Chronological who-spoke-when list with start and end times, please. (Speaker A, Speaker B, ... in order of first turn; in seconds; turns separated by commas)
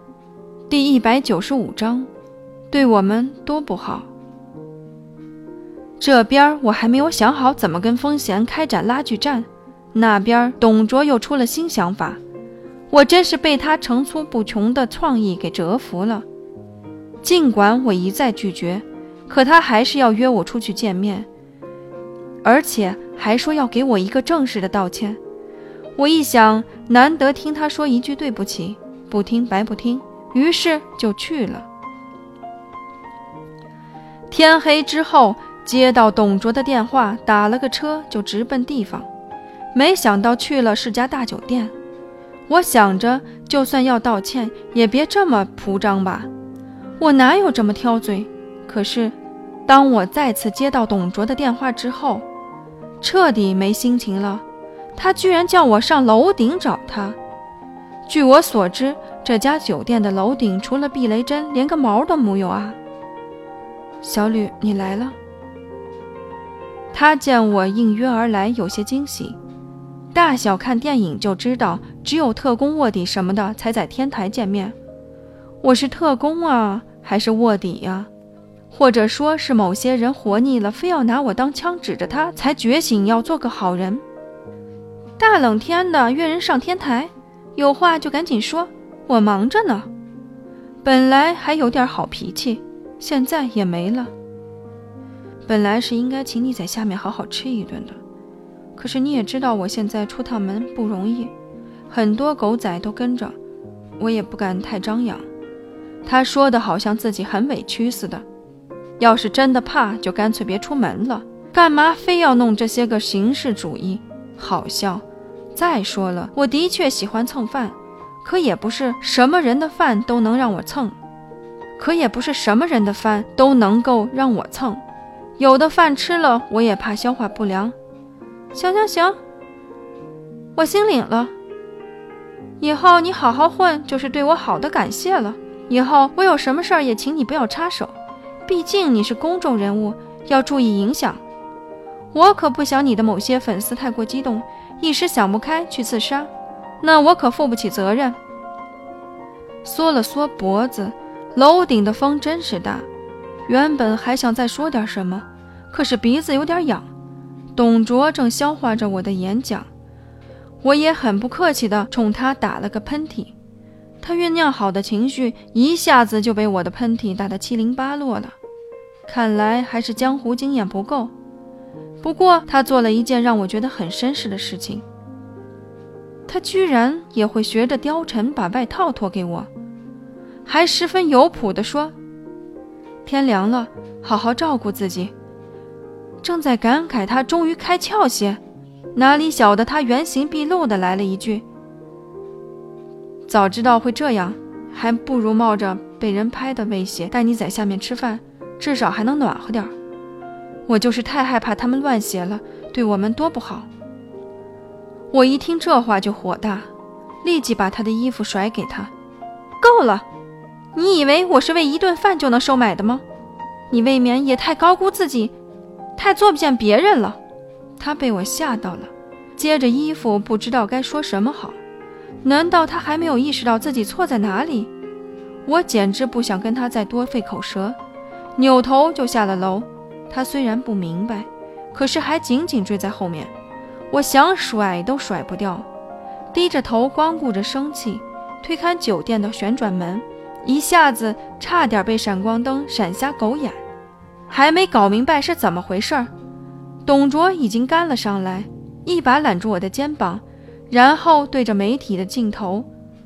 Speaker A: 0.7-2.1, Speaker A: 2.7-4.1, Speaker A: 6.0-12.2, Speaker A: 12.9-16.3, Speaker A: 17.2-21.3, Speaker A: 22.4-25.2, Speaker A: 26.0-31.7, Speaker A: 34.3-39.1, Speaker A: 39.7-41.7, Speaker A: 42.5-46.3, Speaker A: 47.0-49.1, Speaker A: 49.7-52.2, Speaker A: 53.0-54.4, Speaker A: 55.0-57.2, Speaker A: 58.1-62.8, Speaker A: 64.0-65.2, Speaker A: 66.9-69.4, Speaker A: 70.1-74.8, Speaker A: 75.6-78.1, Speaker A: 78.7-84.0, Speaker A: 85.2-89.9, Speaker A: 90.8-94.1, Speaker A: 95.5-98.0, Speaker A: 98.8-101.3, Speaker A: 101.9-103.4, Speaker A: 104.0-105.3, Speaker A: 106.0-108.2, Speaker A: 109.0-115.0, Speaker A: 115.5-121.0, Speaker A: 121.8-124.8, Speaker A: 125.4-127.8, Speaker A: 128.5-129.2, Speaker A: 130.6-131.3, Speaker A: 132.6-141.2, Speaker A: 142.1-146.3, Speaker A: 146.8-148.2, Speaker A: 149.6-152.9, Speaker A: 153.5-156.9, Speaker A: 157.6-159.7, Speaker A: 160.6-163.3, Speaker A: 164.0-168.3, Speaker A: 169.1-171.1, Speaker A: 172.0-174.8, Speaker A: 176.3-179.5, Speaker A: 180.4-181.9, Speaker A: 183.1-185.1, Speaker A: 186.2-188.4, Speaker A: 188.9-191.4, Speaker A: 193.3-199.7, Speaker A: 200.7-203.7, Speaker A: 205.1-206.7, Speaker A: 207.2-208.9, Speaker A: 209.6-210.1, Speaker A: 210.7-213.0, Speaker A: 213.7-215.3, Speaker A: 216.0-217.2, Speaker A: 217.8-221.6, Speaker A: 222.2-224.7, Speaker A: 225.4-227.8, Speaker A: 228.4-233.3, Speaker A: 233.9-235.7, Speaker A: 236.3-243.6, Speaker A: 244.3-246.1, Speaker A: 246.8-252.7